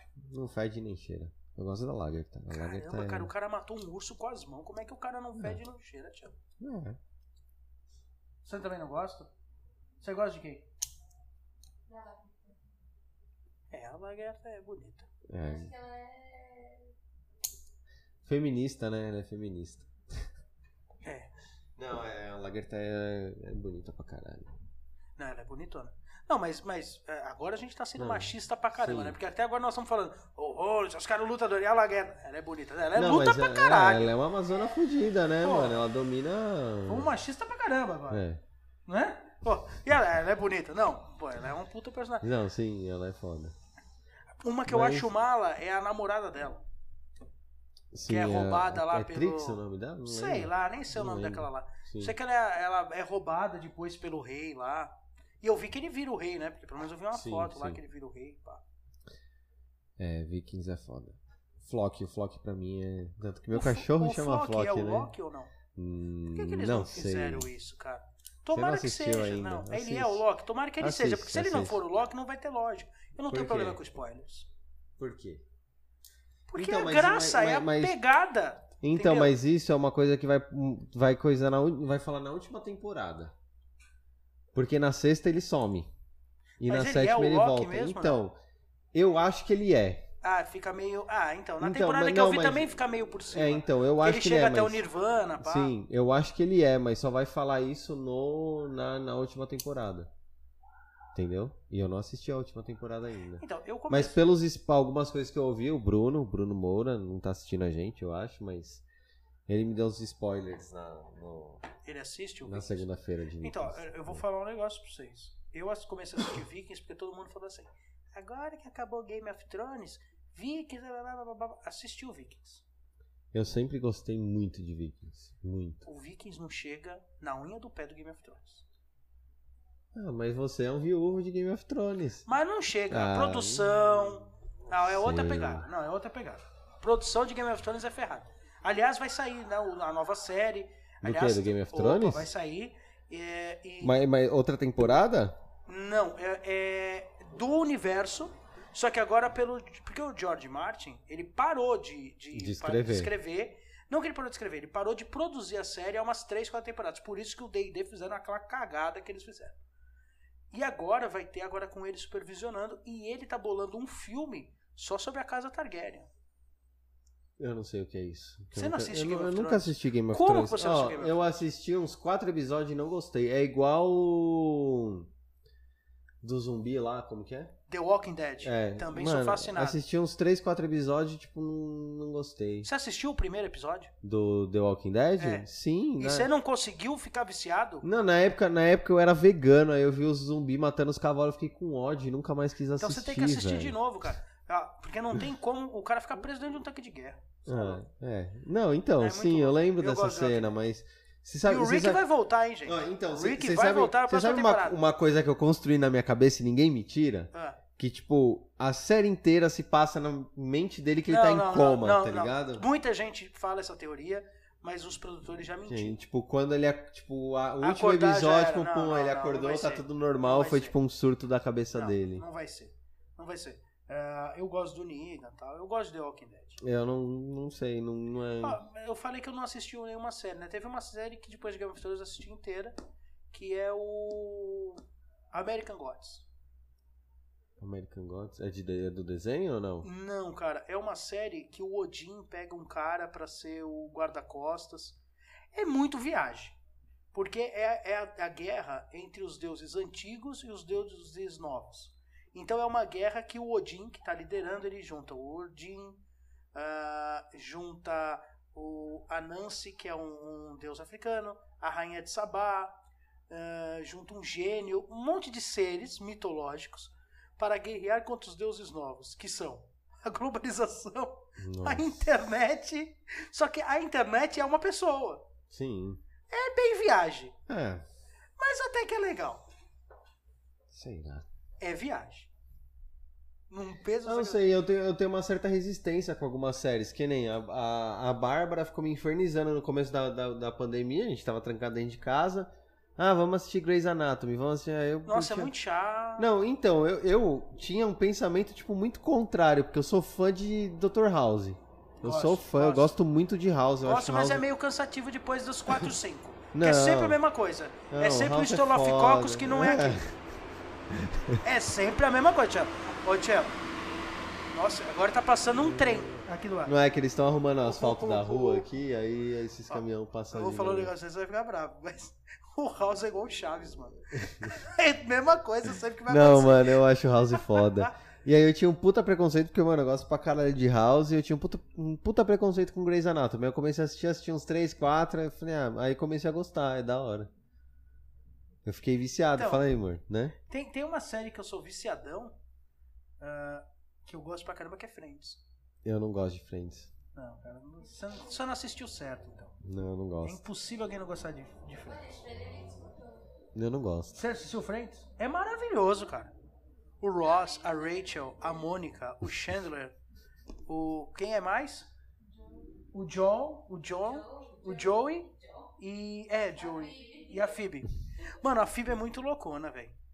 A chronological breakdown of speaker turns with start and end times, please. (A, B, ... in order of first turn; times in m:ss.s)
0:00.3-0:03.3 A
0:02.5-0:06.4 B
0:06.6-0:07.0 A
0:08.4-0:09.3 B
0:10.0-0:10.7 B
0:11.9-0:12.6 C
0:13.7-0:15.1 B
0:15.3-0:15.7 A
0:15.4-0:16.9 C
0:18.2-0:19.9 A
0:21.0-0:21.3 B
0:21.8-0:24.6 A
0:25.2-0:34.1 B
0:28.0-0:29.2 A
0:32.9-0:37.1 A
0:35.4-0:35.8 B
0:36.9-0:38.2 B
0:38.1-0:38.4 A
0:38.9-0:42.3 B
0:42.2-0:43.5 A
0:44.4-0:46.6 B
0:44.7-0:45.1 A
0:47.9-0:52.1 A
0:48.1-0:58.6 B
0:57.1-0:57.8 A
1:00.0-1:05.1 A
1:03.5-1:05.5 B
1:05.7-1:07.5 A
1:06.3-1:14.5 B
1:08.5-1:10.2 A
1:10.8-1:11.8 A
1:13.3-1:13.8 A
1:15.0-1:15.4 A
1:16.5-1:19.3 B
1:16.5-1:18.0 A
1:18.8-1:23.3 A
1:24.5-1:25.9 A
1:26.6-1:28.4 A
1:26.6-1:28.2 B
1:28.9-1:30.0 A
1:30.2-1:35.8 B
1:31.6-1:34.8 A
1:35.4-1:40.1 A
1:41.1-1:48.8 A
1:43.4-1:44.2 B
1:49.5-1:51.6 A
1:51.8-1:52.8 B
1:52.4-1:54.2 A
1:53.4-2:02.6 B
2:03.3-2:05.8 A
2:05.8-2:08.6 B
2:09.9-2:12.2 A
2:12.2-2:24.0 B
2:12.9-2:13.7 A
2:14.7-2:15.6 A
2:21.0-2:22.3 A
2:23.8-2:25.4 A
2:25.7-2:39.5 B
2:32.3-2:33.1 A
2:40.5-2:46.1 B
2:47.4-2:55.1 A
2:48.5-2:51.2 B
2:56.2-2:57.5 A
2:57.7-2:59.8 B
2:58.4-3:02.7 A
3:02.6-3:03.9 B
3:04.0-3:06.3 A
3:05.2-3:05.5 B
3:06.0-3:07.8 B
3:07.8-3:13.8 A
3:12.8-3:17.8 B
3:17.4-3:22.0 A
3:19.0-3:20.5 B
3:21.4-3:24.8 B
3:22.6-3:32.6 A
3:27.3-3:27.6 B
3:31.1-3:36.0 B
3:35.7-3:42.2 A
3:37.6-3:40.7 B
3:41.7-3:46.6 B
3:46.6-3:48.6 A
3:48.4-3:52.7 B
3:53.3-3:56.2 B
3:57.6-3:59.9 A
3:59.8-4:05.0 B
4:05.5-4:06.6 B
4:07.1-4:16.0 B
4:16.5-4:22.7 B
4:23.3-4:35.2 B
4:31.4-4:32.0 A
4:35.5-4:36.0 A
4:36.3-4:37.3 B
4:37.5-4:37.8 A
4:38.4-4:39.4 B
4:40.7-4:41.2 A
4:41.6-4:42.3 B
4:43.5-4:44.4 B
4:44.0-4:55.5 A
4:55.0-4:56.3 B
4:56.2-5:04.4 A
5:02.0-5:02.9 B
5:03.8-5:10.0 B
5:05.7-5:05.9 A
5:06.5-5:07.2 A
5:07.9-5:10.1 A
5:10.9-5:11.4 A
5:11.4-5:13.6 B
5:14.5-5:16.7 B
5:15.6-5:20.9 A
5:17.6-5:18.7 B
5:19.7-5:27.9 B
5:24.2-5:24.5 A
5:26.1-5:37.3 A
5:38.6-5:40.4 A
5:39.4-5:39.6 B
5:40.5-5:42.3 B
5:43.2-5:45.4 B
5:45.8-5:46.9 A
5:47.1-5:49.5 B
5:49.6-5:50.4 A
5:50.2-5:52.0 B
5:51.8-5:53.3 C
5:53.5-5:54.2 A
5:54.2-5:56.3 B
5:57.0-6:00.0 B
5:57.2-5:58.7 C
6:00.7-6:01.9 B
6:02.2-6:02.8 C
6:02.9-6:05.3 B
6:04.0-6:05.7 C
6:05.8-6:09.9 B
6:06.5-6:07.7 C